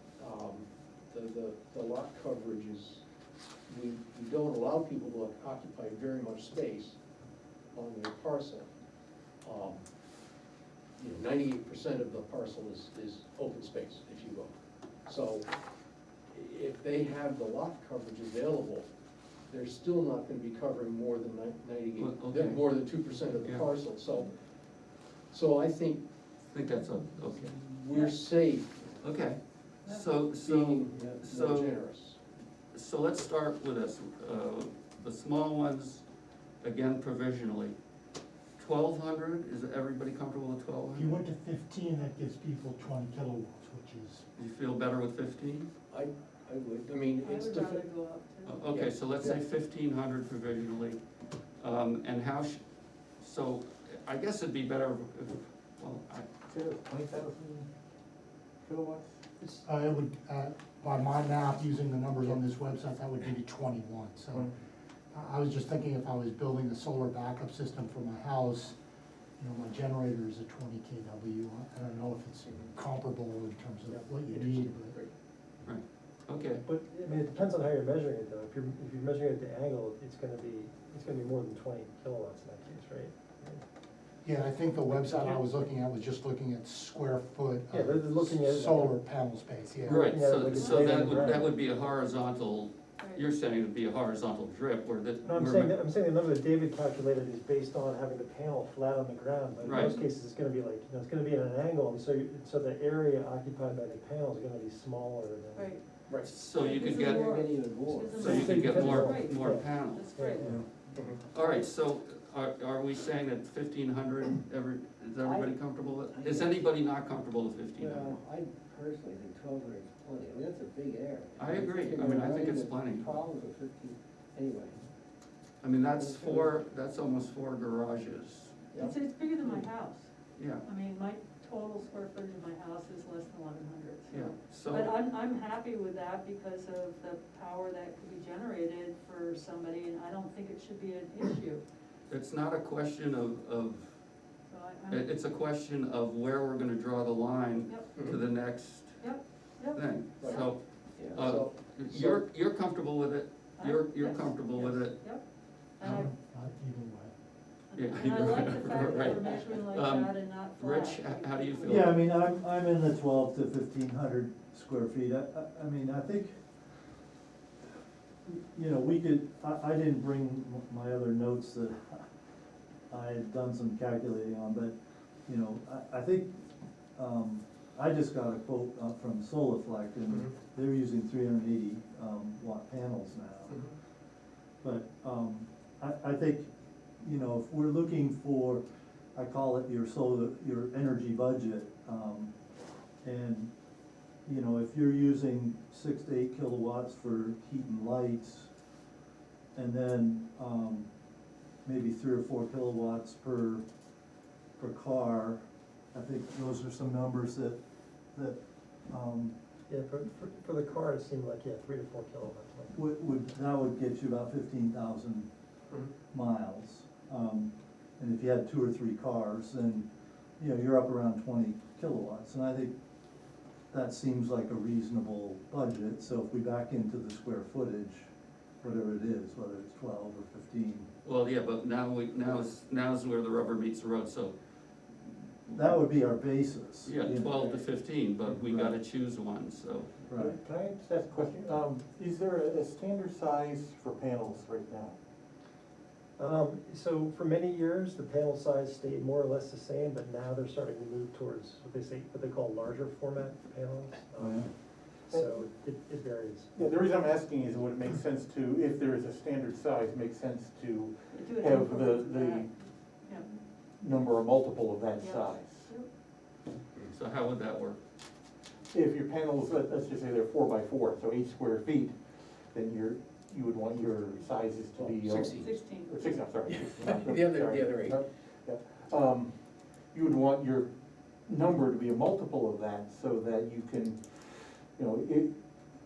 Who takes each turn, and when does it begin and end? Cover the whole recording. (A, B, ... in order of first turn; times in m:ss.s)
0:00.2-0:03.0 A
0:03.7-0:07.0 A
0:07.7-0:08.7 A
0:09.4-0:09.8 A
0:11.0-0:14.5 A
0:15.0-0:15.5 A
0:16.3-0:18.9 A
0:19.5-0:24.3 A
0:22.0-0:22.7 B
0:23.4-0:23.7 B
0:25.3-0:26.0 A
0:26.5-0:27.6 B
0:27.3-0:29.0 A
0:27.9-0:28.2 C
0:29.0-0:31.9 B
0:30.4-0:32.2 A
0:30.9-0:31.2 D
0:32.7-0:36.0 B
0:36.6-0:37.8 B
0:38.6-0:41.2 B
0:40.9-0:44.2 E
0:44.4-0:45.7 B
0:45.9-0:47.9 A
0:47.2-0:48.7 C
0:48.4-0:51.0 B
0:48.7-0:49.4 A
0:51.6-0:52.6 B
0:53.2-0:56.2 B
0:56.5-0:57.7 F
0:58.6-0:59.2 F
0:59.6-1:04.5 E
1:05.1-1:08.8 E
1:09.4-1:15.0 E
1:14.6-1:15.1 A
1:15.6-1:16.6 B
1:16.6-1:23.6 G
1:24.2-1:31.2 E
1:27.7-1:29.0 G
1:29.8-1:31.5 G
1:29.9-1:35.8 B
1:30.6-1:30.8 C
1:35.2-1:45.7 G
1:39.6-1:40.0 B
1:45.5-1:45.8 C
1:46.2-1:47.6 B
1:46.5-1:50.5 C
1:46.8-1:49.1 D
1:48.1-1:50.7 G
1:48.2-1:50.1 B
1:50.4-1:50.7 H
1:50.9-1:51.2 A
1:51.2-1:58.2 B
1:55.2-1:56.7 D
1:57.8-2:04.8 D
2:01.4-2:03.2 B
2:05.6-2:08.7 B
2:05.9-2:06.5 D
2:08.8-2:10.1 C
2:09.4-2:09.7 D
2:10.4-2:10.6 B
2:10.6-2:21.6 C
2:14.1-2:15.0 B
2:22.1-2:23.9 B
2:24.5-2:25.1 C
2:24.9-2:29.0 B
2:28.0-2:28.2 A
2:29.0-2:30.5 C
2:29.6-2:35.0 B
2:30.2-2:32.2 A
2:33.6-2:35.2 C
2:35.8-2:36.1 C
2:35.8-2:37.1 E
2:37.7-2:42.1 C
2:37.8-2:42.0 B
2:41.6-2:46.4 H
2:48.3-2:52.0 H
2:52.9-2:54.7 H
2:55.2-2:56.3 H
2:57.0-3:03.7 H
3:04.6-3:06.5 H
3:07.0-3:08.6 H
3:09.1-3:12.3 H
3:13.0-3:13.5 H
3:14.2-3:18.5 H
3:19.5-3:20.9 H
3:21.6-3:23.6 H
3:24.6-3:27.6 H
3:28.1-3:29.3 H
3:29.7-3:32.7 G
3:32.7-3:35.3 H
3:36.1-3:39.8 H
3:40.4-3:42.7 H
3:43.7-3:48.1 H
3:48.6-3:50.9 H
3:51.0-3:54.3 B
3:55.5-3:57.4 H
3:56.8-3:59.9 B
3:58.3-3:58.8 H
4:00.1-4:00.4 H
4:00.1-4:04.9 F
4:06.2-4:14.5 G
4:14.2-4:14.5 H
4:15.0-4:16.6 G
4:16.6-4:22.5 F
4:21.1-4:23.3 C
4:23.8-4:25.7 F
4:25.0-4:25.9 C
4:26.9-4:27.8 B
4:28.7-4:39.4 F
4:34.7-4:35.5 A
4:35.4-4:36.1 C
4:36.5-4:38.0 A
4:39.9-4:40.7 F
4:41.2-4:45.4 F